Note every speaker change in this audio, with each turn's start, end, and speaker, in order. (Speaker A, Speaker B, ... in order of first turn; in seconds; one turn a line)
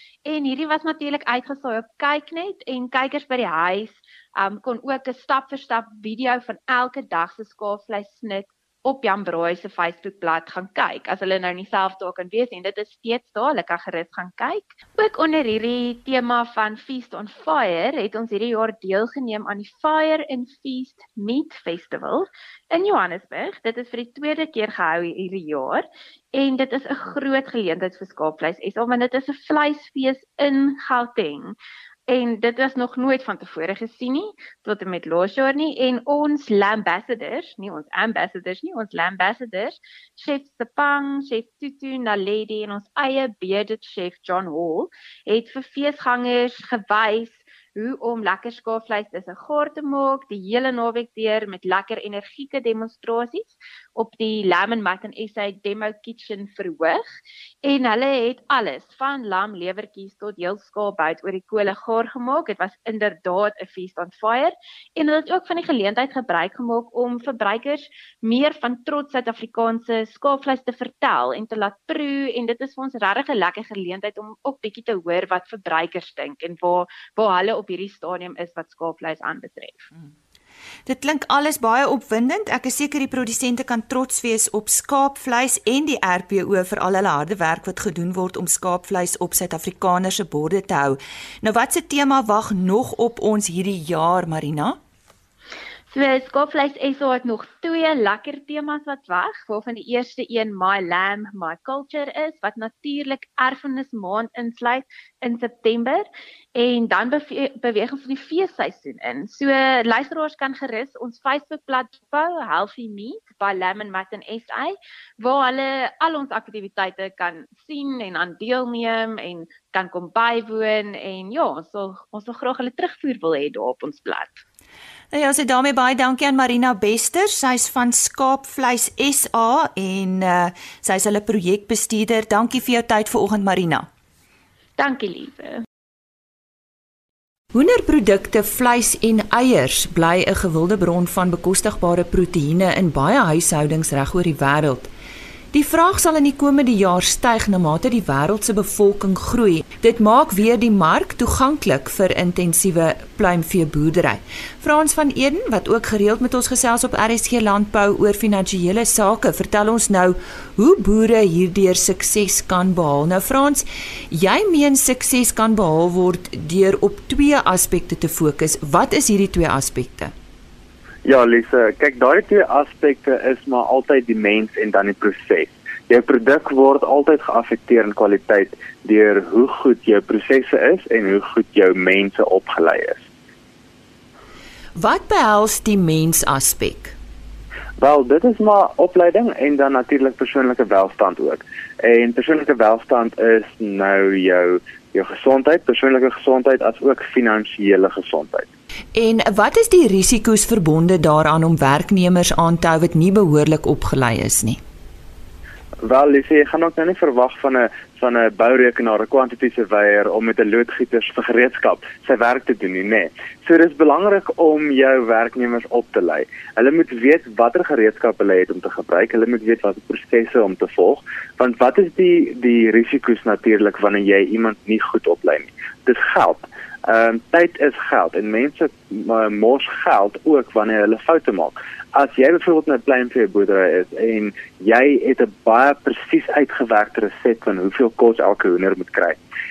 Speaker A: 0.2-31.6
Speaker A: 32.1-57.0
Speaker A: 57.6-79.9
Speaker B: 80.9-94.8
Speaker A: 95.9-124.4
Speaker B: 125.1-133.9
Speaker A: 134.8-135.6
Speaker B: 137.5-144.9
Speaker B: 145.5-170.1
Speaker C: 171.1-183.0
Speaker B: 184.8-186.9
Speaker C: 187.8-198.5
Speaker B: 198.9-204.6
Speaker C: 205.8-239.2